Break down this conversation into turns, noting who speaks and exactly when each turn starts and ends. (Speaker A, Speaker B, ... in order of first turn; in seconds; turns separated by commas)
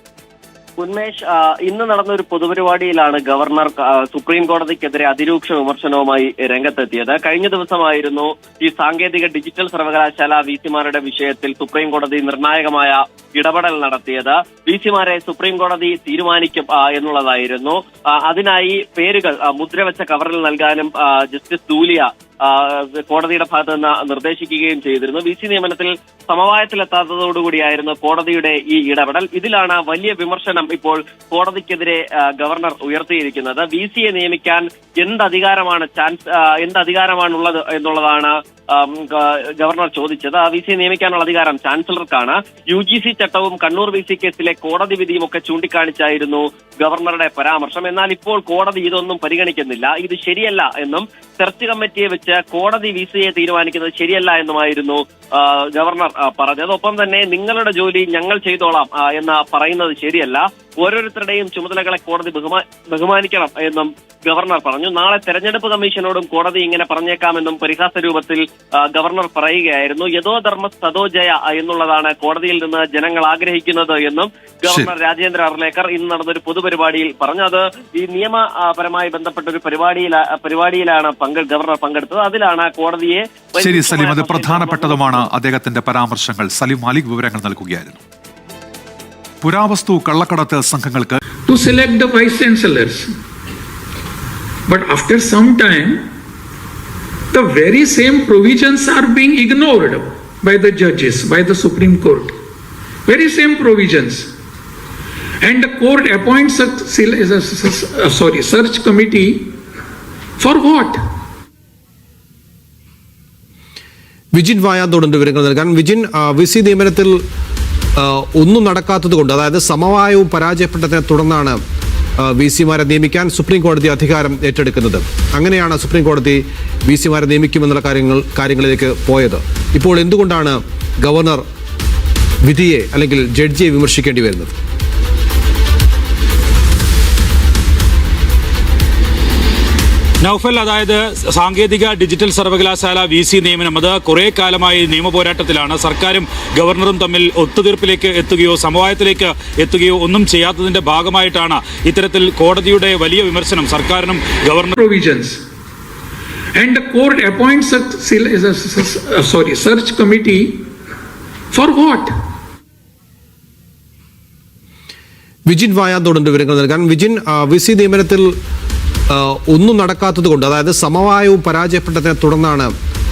Speaker A: 0.8-85.3, Speaker B: 83.6-88.0, Speaker B: 89.4-91.2, Speaker C: 91.5-93.1, Speaker C: 94.7-96.0, Speaker C: 97.3-102.3, Speaker C: 103.1-104.3, Speaker C: 105.4-109.5, Speaker C: 110.4-111.0, Speaker D: 114.3-117.2, Speaker D: 118.0-121.6, Speaker D: 122.2-131.4, Speaker D: 132.4-134.5, Speaker E: 140.2-154.8, Speaker C: 154.8-155.4, Speaker C: 156.6-160.6, Speaker C: 161.5-162.1, Speaker D: 165.5-168.3, Speaker D: 169.1-172.7